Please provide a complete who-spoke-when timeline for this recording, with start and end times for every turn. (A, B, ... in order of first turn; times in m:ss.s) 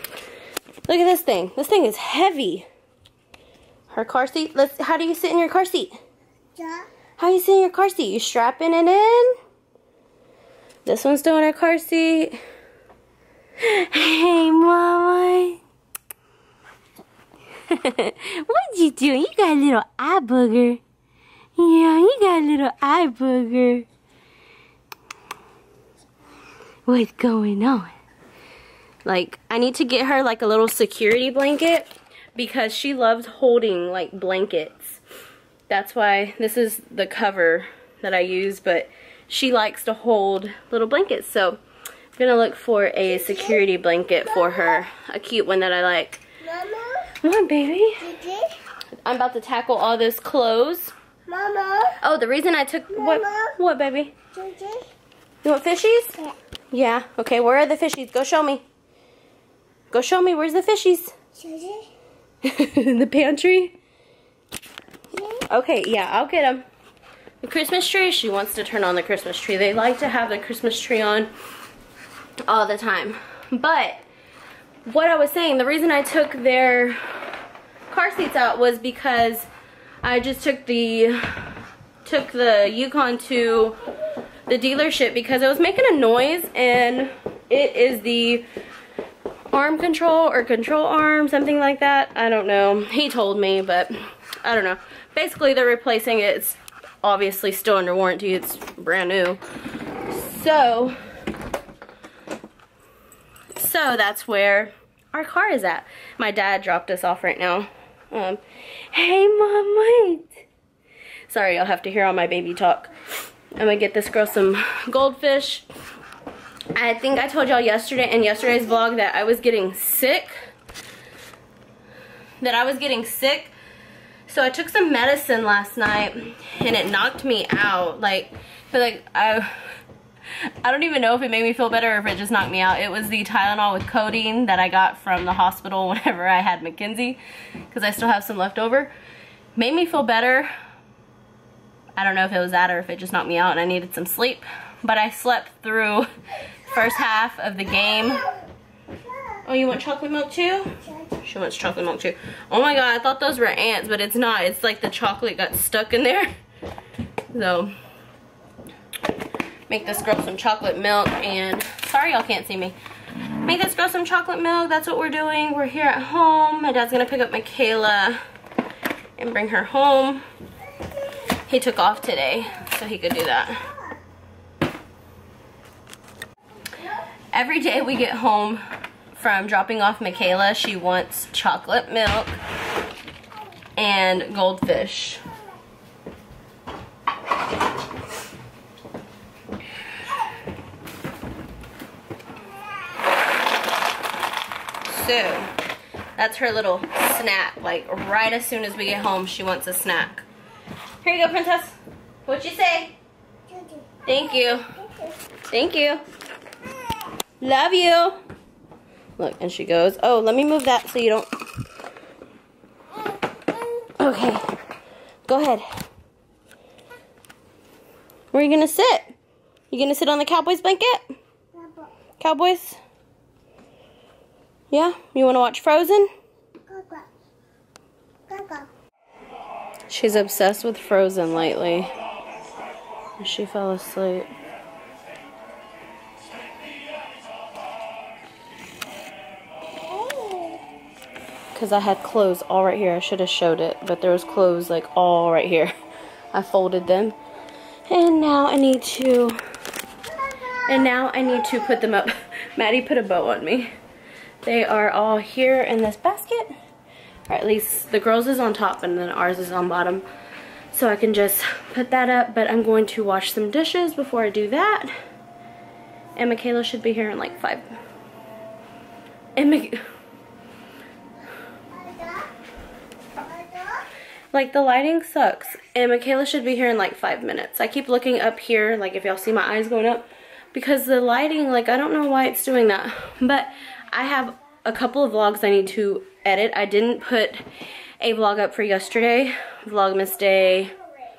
0:00.9-0:02.7 A
0:03.9-0:06.0 A
0:06.6-0:06.8 B
0:07.2-0:09.4 A
0:10.8-0:12.4 A
0:13.6-0:15.6 A
0:17.7-0:20.8 A
0:21.6-0:23.9 A
0:26.9-0:27.9 A
0:29.0-0:35.0 A
0:35.7-0:41.6 A
0:42.2-0:46.2 A
0:43.1-0:43.6 B
0:44.3-0:44.8 B
0:46.4-0:47.1 B
0:47.2-0:48.1 A
0:48.0-0:48.6 B
0:49.0-0:50.9 A
0:51.3-0:52.0 B
0:52.0-0:54.1 A
0:52.9-0:53.6 B
0:54.3-0:54.9 B
0:55.4-0:56.2 A
0:56.7-0:58.6 A
0:59.9-1:01.1 A
1:01.4-1:01.9 B
1:02.4-1:03.7 A
1:05.1-1:05.4 B
1:05.5-1:06.6 A
1:07.4-1:11.3 A
1:12.4-1:14.0 A
1:14.8-1:17.0 A
1:17.9-1:19.5 A
1:20.0-1:21.5 A
1:22.0-1:23.8 A
1:24.5-1:28.4 A
1:29.5-1:39.4 A
1:40.1-1:41.0 A
1:43.5-1:50.4 A
1:51.3-1:52.9 A
1:53.5-1:55.6 A
1:56.7-2:00.3 A
2:02.4-2:03.5 A
2:04.3-2:09.5 A
2:10.6-2:17.2 A
2:17.7-2:18.9 A
2:19.6-2:20.5 A
2:22.0-2:26.1 A
2:26.7-2:28.3 A
2:29.4-2:36.3 A
2:37.3-2:37.7 A
2:39.7-2:42.8 A
2:43.4-2:48.2 A
2:49.2-2:50.2 A
2:51.4-2:53.6 A
2:57.3-3:02.4 A
3:03.8-3:05.2 A
3:14.8-3:15.5 A
3:16.2-3:20.2 A
3:21.0-3:22.9 A
3:23.5-3:24.0 B
3:24.0-3:24.7 A
3:24.6-3:25.1 B
3:25.5-3:26.0 A
3:27.4-3:28.2 A
3:29.2-3:31.3 A
3:33.0-3:33.9 B
3:34.0-3:34.4 A
3:35.3-3:35.6 A
3:38.3-3:39.1 A
3:39.7-3:41.1 A
3:41.6-3:41.9 B
3:42.2-3:42.8 A
3:44.7-3:46.1 A
3:46.7-3:47.0 B
3:48.3-3:48.7 B
3:49.9-3:51.9 A
3:53.2-3:54.3 A
3:59.9-4:00.6 B
4:01.5-4:05.7 A
4:06.3-4:07.2 A
4:07.9-4:09.4 A
4:10.6-4:13.7 A
4:14.4-4:16.5 A
4:17.3-4:20.0 A
4:20.7-4:24.9 A
4:26.2-4:27.7 A
4:29.4-4:29.8 A
4:31.7-4:32.3 B
4:33.2-4:33.9 B
4:34.3-4:47.4 A
4:48.0-4:50.7 A